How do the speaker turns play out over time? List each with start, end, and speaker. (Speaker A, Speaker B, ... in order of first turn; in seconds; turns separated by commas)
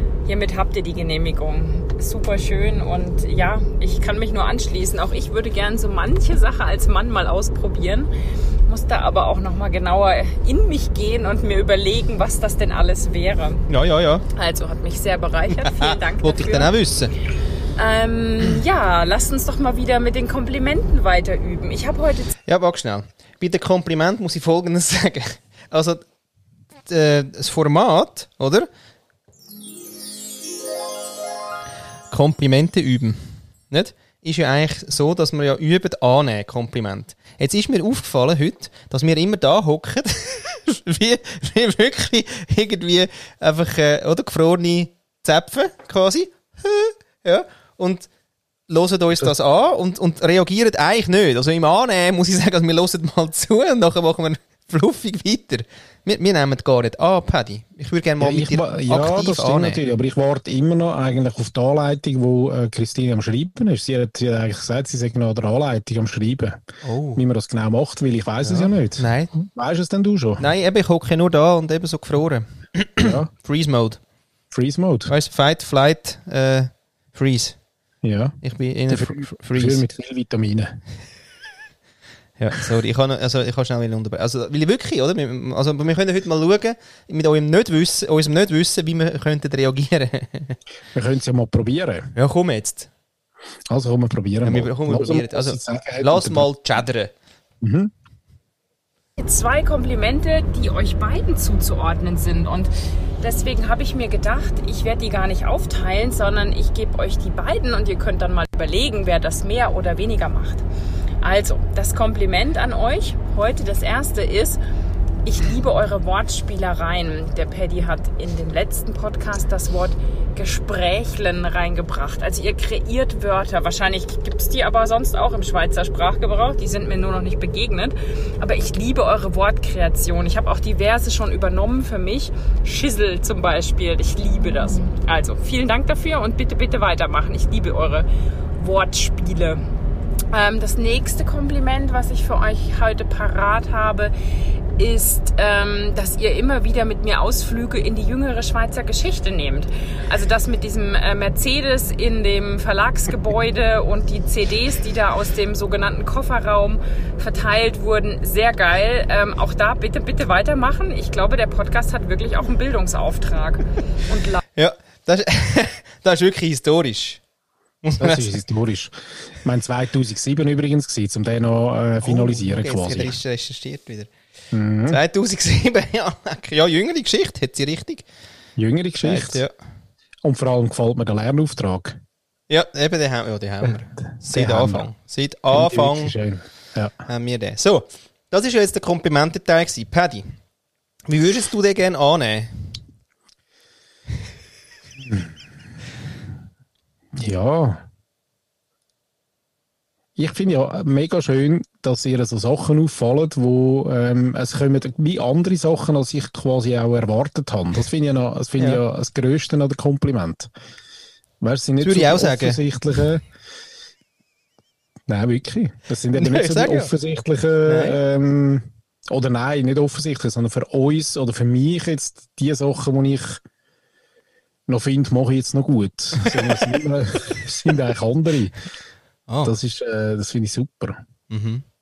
Speaker A: 0.2-8.1, Speaker A: 8.7-13.7, Speaker B: 13.7-14.3, Speaker A: 14.3-16.7, Speaker B: 15.5-17.1, Speaker A: 17.8-22.4, Speaker B: 22.5-26.0, Speaker B: 26.9-28.7, Speaker B: 32.1-48.1, Speaker B: 48.7-59.8, Speaker C: 58.2-66.6, Speaker B: 66.8-67.2, Speaker C: 67.2-70.4, Speaker B: 68.4-69.3, Speaker B: 70.4-74.0, Speaker C: 73.0-73.3, Speaker C: 74.5-75.1, Speaker B: 75.1-77.6, Speaker C: 78.0-78.4, Speaker B: 78.4-79.9, Speaker C: 78.9-80.8, Speaker B: 82.4-90.6, Speaker C: 90.9-92.1, Speaker B: 92.2-92.9, Speaker C: 93.7-96.5, Speaker B: 94.4-97.1, Speaker C: 97.6-97.9, Speaker A: 99.2-110.6, Speaker A: 111.2-114.6, Speaker A: 115.2-139.6, Speaker A: 140.3-144.1, Speaker A: 144.8-164.4, Speaker B: 164.6-167.2, Speaker B: 167.8-168.4, Speaker C: 168.0-173.2, Speaker B: 172.0-174.1, Speaker C: 174.5-175.0, Speaker B: 174.9-178.1, Speaker C: 178.6-179.4, Speaker B: 179.0-179.5, Speaker C: 180.2-182.0, Speaker B: 182.5-186.2, Speaker C: 184.2-184.9, Speaker C: 185.5-186.9, Speaker B: 187.1-190.2, Speaker B: 191.1-192.7, Speaker C: 195.0-195.3, Speaker C: 197.2-197.8, Speaker C: 200.2-210.5, Speaker B: 208.6-208.8, Speaker C: 211.4-213.2, Speaker B: 211.8-212.6, Speaker C: 215.1-223.4, Speaker B: 216.1-216.9, Speaker B: 217.7-218.0, Speaker C: 224.7-228.6, Speaker B: 226.2-226.8, Speaker B: 229.3-229.6, Speaker C: 229.4-231.0, Speaker B: 231.3-231.7